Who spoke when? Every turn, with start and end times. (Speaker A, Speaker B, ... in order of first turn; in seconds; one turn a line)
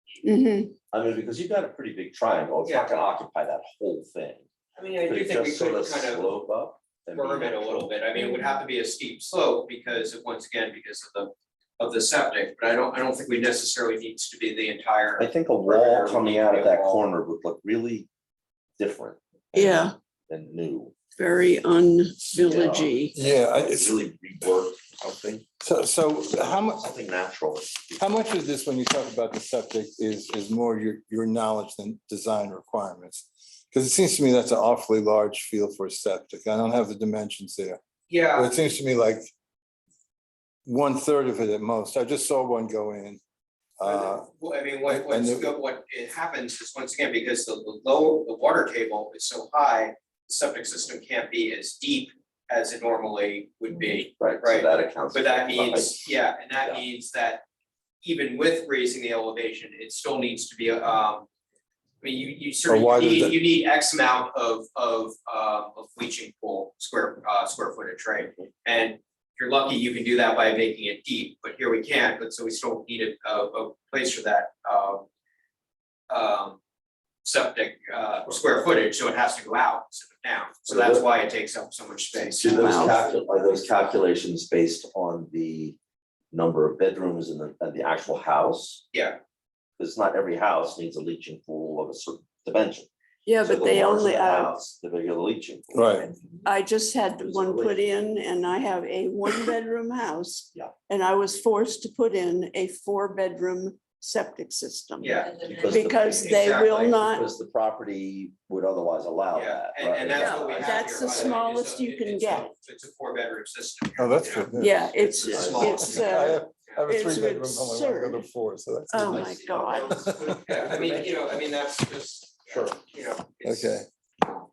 Speaker A: 0.2-0.7
Speaker B: 0.9-4.5
Speaker C: 2.6-3.0
Speaker C: 4.8-6.3
Speaker B: 5.1-7.9
Speaker C: 7.1-17.1
Speaker B: 15.2-18.1
Speaker B: 18.8-20.9
Speaker A: 19.5-20.0
Speaker A: 21.2-23.1
Speaker B: 22.4-25.5
Speaker D: 23.1-24.0
Speaker D: 25.6-26.9
Speaker B: 26.8-28.1
Speaker D: 28.0-37.8
Speaker C: 38.1-38.5
Speaker D: 38.3-39.3
Speaker D: 40.7-43.2
Speaker D: 43.8-44.3
Speaker C: 43.8-57.4
Speaker D: 44.9-45.5
Speaker B: 54.2-56.1
Speaker C: 58.0-61.3
Speaker C: 62.0-75.0
Speaker D: 62.7-63.4
Speaker C: 76.1-76.6
Speaker C: 77.2-83.5
Speaker B: 80.7-81.1
Speaker B: 82.4-85.8
Speaker A: 82.5-83.0
Speaker B: 86.3-88.8
Speaker C: 88.9-89.2
Speaker B: 89.8-92.9
Speaker A: 93.3-94.5
Speaker B: 93.4-95.8
Speaker D: 95.7-96.1
Speaker A: 96.4-107.2
Speaker B: 97.2-97.8
Speaker C: 105.0-107.0
Speaker B: 105.4-110.7
Speaker C: 109.3-116.9
Speaker A: 110.1-112.5
Speaker D: 114.0-119.3
Speaker A: 114.6-118.3
Speaker B: 115.2-115.7
Speaker A: 118.9-120.1
Speaker C: 119.0-123.8
Speaker D: 119.9-120.4
Speaker B: 120.6-121.1
Speaker B: 122.5-122.8
Speaker D: 123.4-123.9